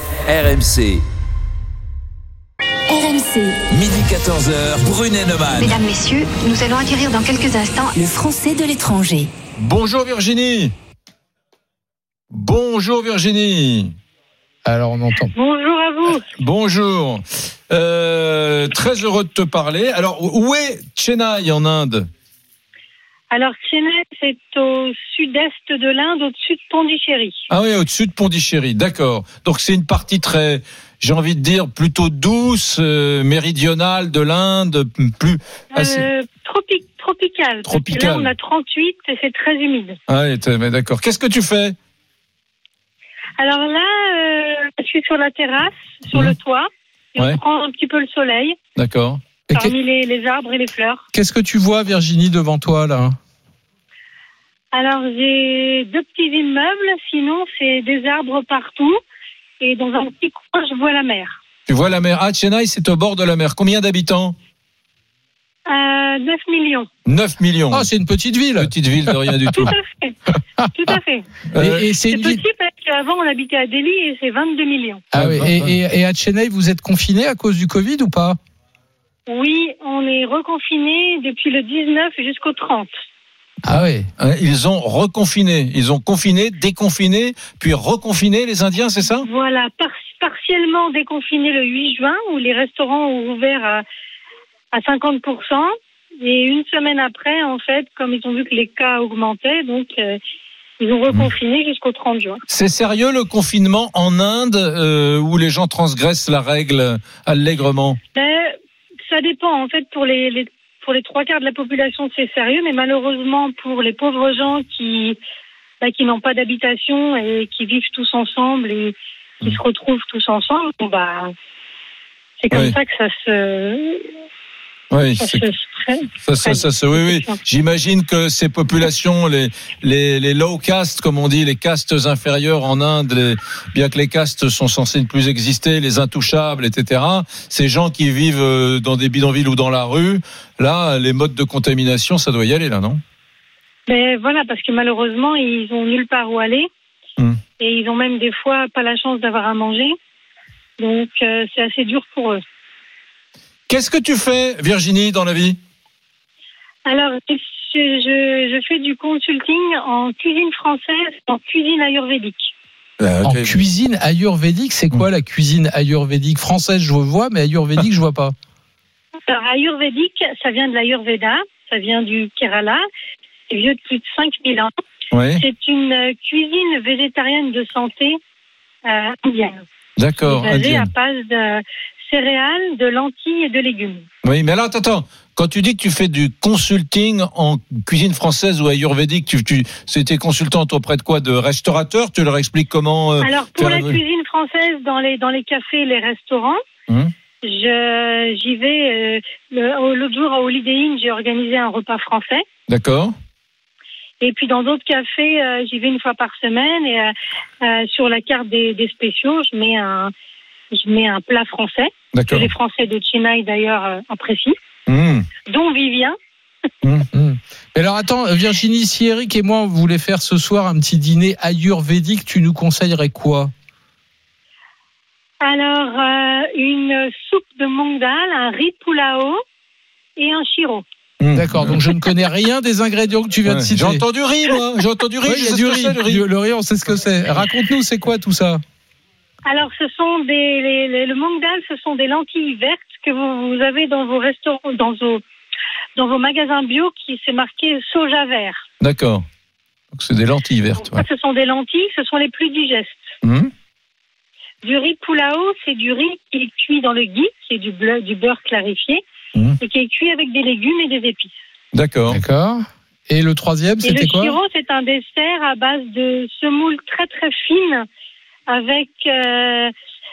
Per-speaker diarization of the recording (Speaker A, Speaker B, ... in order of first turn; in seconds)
Speaker A: 0.2-1.0, 3.7-5.8
Speaker B: 2.9-3.6, 8.0-9.3
Speaker C: 5.5-7.9
Speaker D: 9.6-10.7, 12.3-13.9, 16.4-22.1, 27.5-36.1, 37.6-38.3, 40.1-41.8, 48.8-49.2, 61.7-64.3, 67.0-67.9, 68.6-69.7, 71.5-71.8, 75.1-75.7, 84.2-89.3, 102.5-108.0, 124.9-125.5, 126.2-143.0, 153.7-155.6, 163.0-163.6, 175.1-175.4, 180.0-180.9, 184.2-194.0, 202.7-203.1, 212.1-212.5, 214.9-215.3, 231.2-231.8, 233.4-236.2, 248.8-249.2, 249.9-251.0, 253.2-253.5, 261.7-262.2
Speaker E: 14.6-15.3, 51.1-53.1, 67.7-69.6, 71.5-72.4, 75.1-78.4, 83.6-84.1, 163.2-168.3, 217.1-223.5, 231.3-234.0, 235.2-238.6, 262.1-264.4
Speaker F: 15.3-16.2, 23.3-27.4, 35.7-40.0, 43.4-48.5, 49.5-51.0, 54.7-59.0, 59.6-61.4, 65.7-66.9, 69.5-70.2, 70.7-71.3, 72.0-75.0, 79.3-82.9, 89.2-93.8, 94.7-95.7, 96.2-100.2, 100.8-102.4, 108.1-108.5, 109.1-115.2, 115.8-121.3, 122.4-124.1, 125.1-127.4, 143.9-146.7, 147.6-149.9, 150.8-152.4, 156.8-162.5, 169.3-172.8, 173.5-174.7, 175.4-178.2, 178.8-179.6, 180.2-184.1, 193.2-196.6, 197.4-202.4, 204.2-210.1, 210.7-214.5, 215.4-216.2, 225.4-229.4, 230.2-230.8, 239.4-245.2, 245.9-248.6, 250.8-253.0, 254.6-259.0, 259.6-261.3, 263.8-267.9, 268.5-269.7